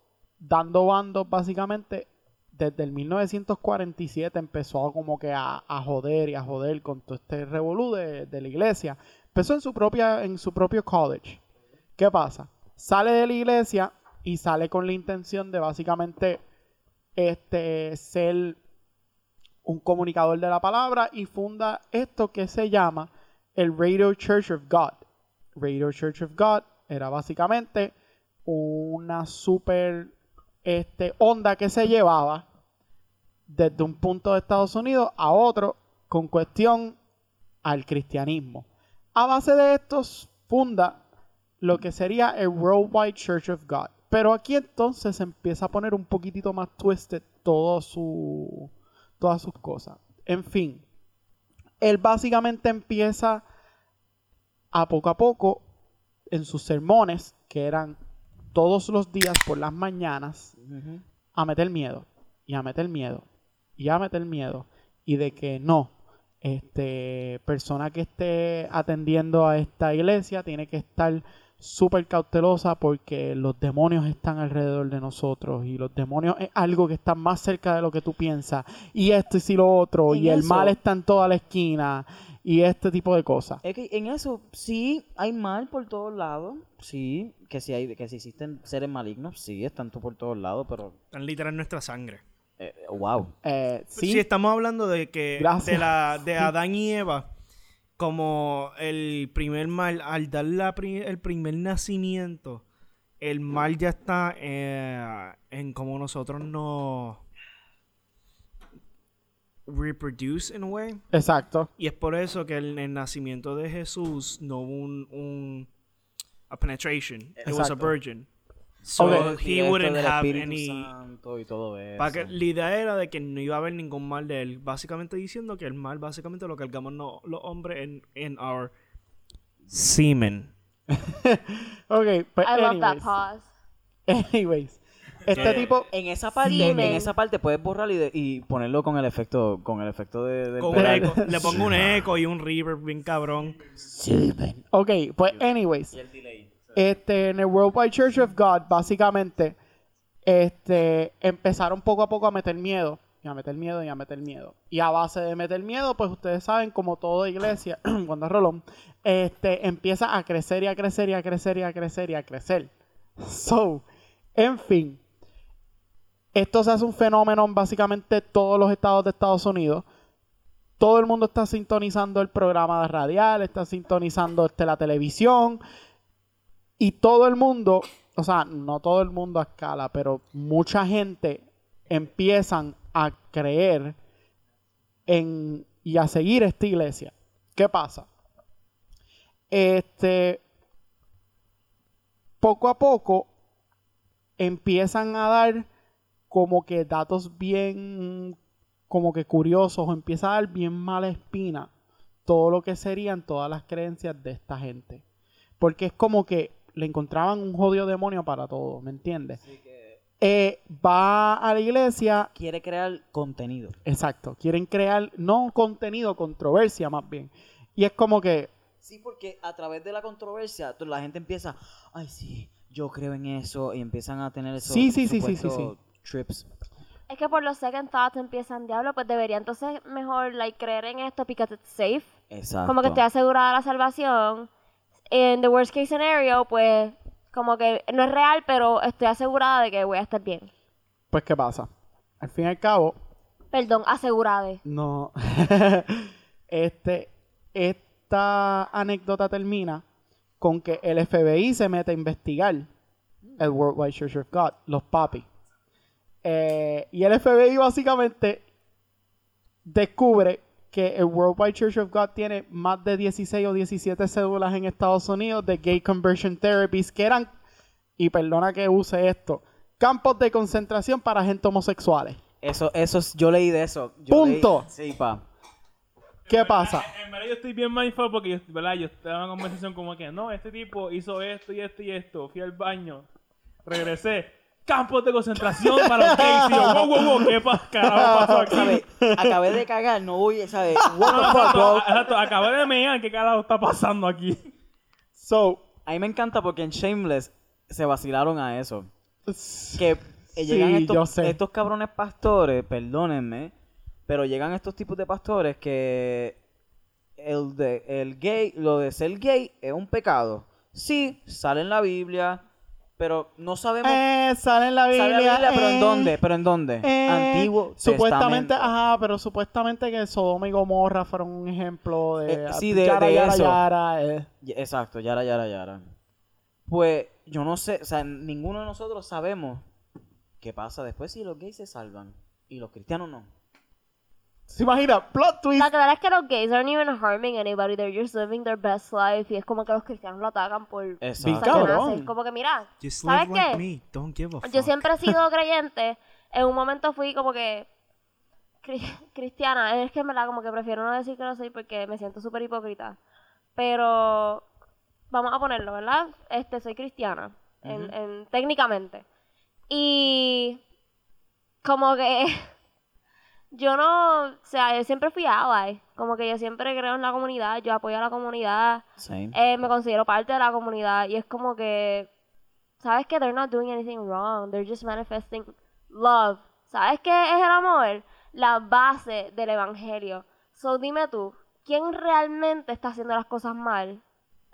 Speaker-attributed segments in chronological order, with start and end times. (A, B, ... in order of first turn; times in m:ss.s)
0:00.4-0:11.4 A
0:12.0-0:16.4 A
0:17.2-0:18.6 A
0:19.6-0:25.0 A
0:25.6-0:27.9 A
0:28.4-0:30.1 A
0:30.6-0:32.4 A
0:33.5-0:37.0 A
0:37.6-0:41.0 A
0:41.6-0:50.8 A
0:51.8-0:53.4 A
0:54.7-0:55.6 A
0:56.3-0:58.0 A
0:58.5-1:00.5 A
1:00.6-1:01.0 B
1:01.3-1:03.2 A
1:03.8-1:23.6 A
1:20.1-1:20.8 B
1:23.6-1:31.0 B
1:31.1-1:32.2 C
1:32.6-1:33.3 B
1:33.4-1:34.3 A
1:34.0-1:37.3 C
1:35.4-1:36.5 A
1:38.0-1:42.6 C
1:43.2-1:47.2 C
1:49.7-1:51.0 C
1:51.1-1:51.7 A
1:51.8-1:55.7 C
1:56.5-1:58.3 C
1:57.4-1:57.9 A
1:58.8-2:00.9 C
1:58.9-2:02.4 B
1:59.0-1:59.3 A
2:02.0-2:08.7 C
2:09.7-2:10.5 C
2:10.9-2:13.1 A
2:12.4-2:13.5 D
2:14.1-2:15.9 A
2:15.3-2:21.9 B
2:15.3-2:15.7 C
2:16.4-2:17.1 D
2:16.4-2:17.0 A
2:20.6-2:23.6 C
2:20.7-2:21.6 A
2:23.8-2:25.9 A
2:25.3-2:26.8 B
2:26.7-2:29.6 A
2:30.2-2:45.0 A
2:46.3-2:49.9 A
2:50.8-2:55.6 A
2:56.8-3:04.0 A
3:05.1-3:08.1 A
3:09.5-3:10.4 A
3:12.4-3:13.3 A
3:14.4-3:15.7 A
3:16.3-3:18.4 A
3:18.9-3:21.7 A
3:22.2-3:25.0 A
3:25.6-3:29.4 A
3:29.4-3:30.0 B
3:30.2-3:32.3 A
3:32.3-3:33.8 B
3:33.8-3:38.5 A
3:38.8-3:46.5 B
3:44.6-3:45.7 A
3:47.1-3:52.1 D
3:52.3-3:53.0 B
3:52.6-3:54.5 D
3:55.1-4:00.5 D
4:01.1-4:01.7 A
4:02.2-4:02.9 A
4:03.5-4:04.6 D
4:04.6-4:09.8 A
4:10.4-4:12.7 A
4:13.2-4:13.5 B
4:13.4-4:15.3 A
4:16.2-4:18.4 A
4:19.6-4:27.3 A
4:28.0-4:32.2 A
4:32.4-4:35.2 B
4:34.1-4:34.7 A
4:36.3-4:43.0 E
4:36.3-4:36.9 A
4:43.6-4:48.8 E
4:45.6-4:49.5 A
4:48.4-4:52.0 B
4:50.8-4:51.8 A
4:51.0-4:54.5 E
4:55.2-4:55.6 A
4:55.8-4:58.9 B
4:59.3-5:01.4 A
4:59.8-5:03.5 B
5:04.1-5:06.4 B
5:07.2-5:12.4 B
5:13.0-5:14.0 B
5:13.8-5:16.2 A
5:14.9-5:18.7 B
5:16.8-5:24.3 A
5:22.2-5:23.6 B
5:24.4-5:25.9 B
5:26.7-5:29.6 B
5:30.4-5:33.3 B
5:34.5-5:35.7 A
5:35.6-5:43.6 D
5:41.0-5:41.8 B
5:41.2-5:42.1 A
5:42.8-5:44.8 C
5:44.4-5:47.7 D
5:48.6-5:53.0 D
5:53.6-5:54.4 D
5:55.1-5:59.0 D
5:57.6-5:57.9 B
5:59.7-6:00.6 D
6:01.6-6:02.4 D
6:03.5-6:12.1 D
6:09.0-6:09.4 B
6:12.8-6:24.0 D